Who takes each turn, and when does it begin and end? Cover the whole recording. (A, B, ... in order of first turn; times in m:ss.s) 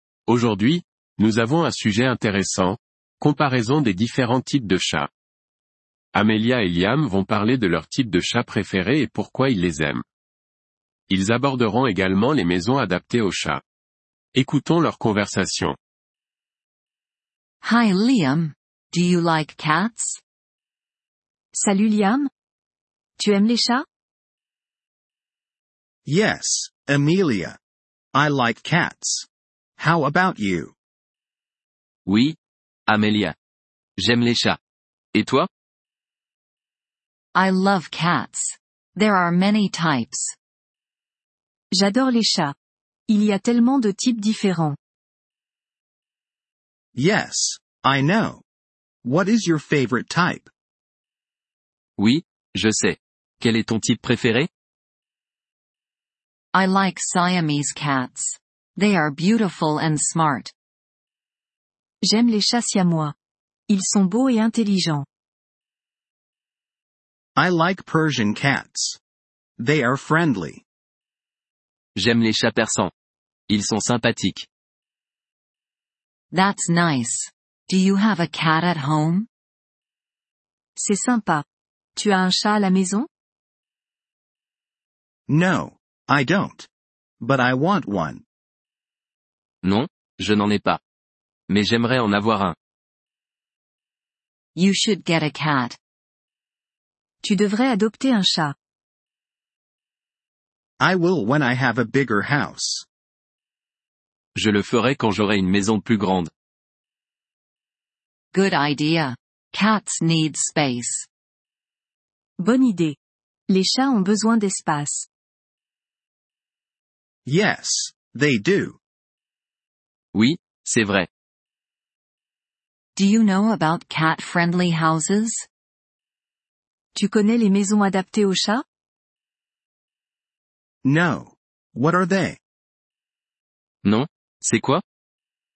0:00.3-0:05.1 A
0:06.1-0:10.0 A
0:11.1-0:13.6 A
0:14.3-0:15.8 A
0:17.6-0:20.2 B
0:21.5-0:22.3 C
0:23.2-0:23.8 C
0:26.0-0:27.6 D
0:28.1-0:29.3 D
0:29.8-0:30.7 D
0:32.1-0:32.4 E
0:32.9-0:33.4 E
0:34.0-0:34.6 E
0:35.1-0:35.5 E
0:37.4-0:40.4 B
0:41.7-0:42.6 C
0:43.1-0:44.8 C
0:47.0-0:48.4 D
0:49.0-0:50.5 D
0:52.0-0:54.5 E
0:56.5-1:00.5 B
1:02.0-1:03.1 C
1:03.7-1:05.1 C
1:07.4-1:09.0 D
1:09.6-1:10.6 D
1:12.0-1:12.9 E
1:13.5-1:14.5 E
1:16.3-1:19.3 B
1:20.8-1:21.4 C
1:22.0-1:23.1 C
1:25.3-1:26.7 D
1:27.2-1:28.2 D
1:29.6-1:30.8 E
1:31.5-1:32.6 E
1:34.6-1:35.8 B
1:37.2-1:38.6 C
1:40.8-1:42.8 D
1:44.4-1:46.3 E
1:48.3-1:51.1 B
1:52.4-1:53.0 C
1:53.5-1:55.1 C
1:57.2-1:58.8 D
2:00.1-2:01.1 E
2:03.0-2:05.5 B
2:07.0-2:08.6 C
2:10.8-2:12.4 D
2:13.8-2:14.8 E